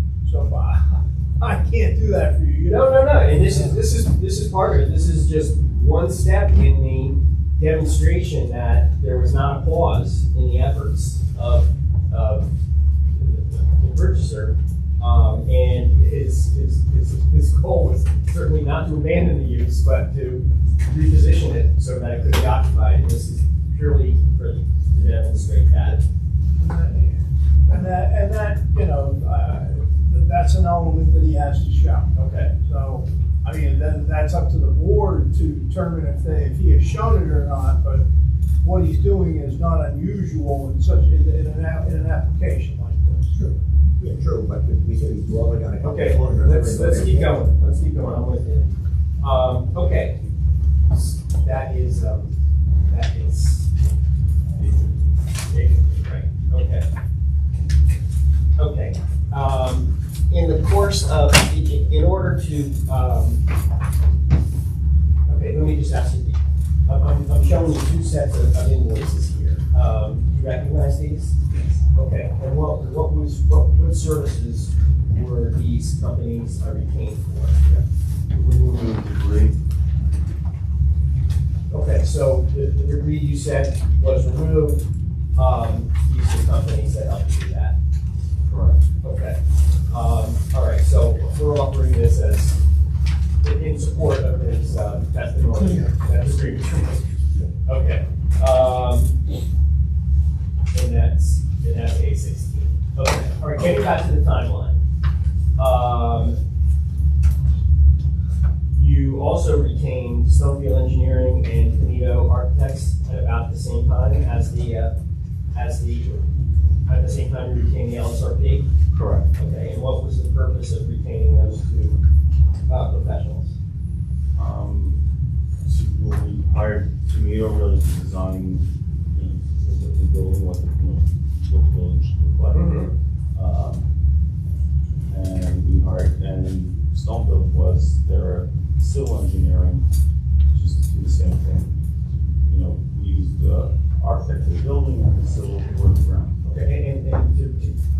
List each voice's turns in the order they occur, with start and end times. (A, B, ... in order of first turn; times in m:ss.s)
0:00.2-0:03.8 A
0:02.7-0:12.5 B
0:13.1-0:26.0 B
0:26.6-0:38.0 A
0:32.2-0:32.5 B
0:38.6-0:43.3 A
0:43.3-0:47.4 C
0:45.8-0:48.7 B
0:49.2-0:50.3 B
0:50.9-0:52.3 B
0:52.9-0:53.7 B
0:54.6-0:56.8 B
0:58.6-1:03.4 B
1:05.3-1:11.4 B
1:11.9-1:17.8 B
1:18.3-1:19.6 D
1:21.7-1:24.8 B
1:25.3-1:27.8 B
1:28.5-1:28.8 D
1:29.0-1:29.4 B
1:29.9-1:32.6 B
1:33.4-1:37.1 B
1:37.6-1:39.2 B
1:40.7-1:44.8 B
1:45.6-1:46.4 B
1:48.8-1:54.9 B
1:55.5-1:56.2 B
1:56.9-1:58.7 B
1:58.9-1:59.3 D
1:59.3-2:02.0 B
2:02.7-2:03.5 B
2:04.3-2:05.0 D
2:05.6-2:12.8 D
2:12.5-2:12.9 B
2:13.3-2:13.8 D
2:15.1-2:19.8 D
2:20.5-2:21.7 D
2:22.4-2:26.7 D
2:26.5-2:27.8 B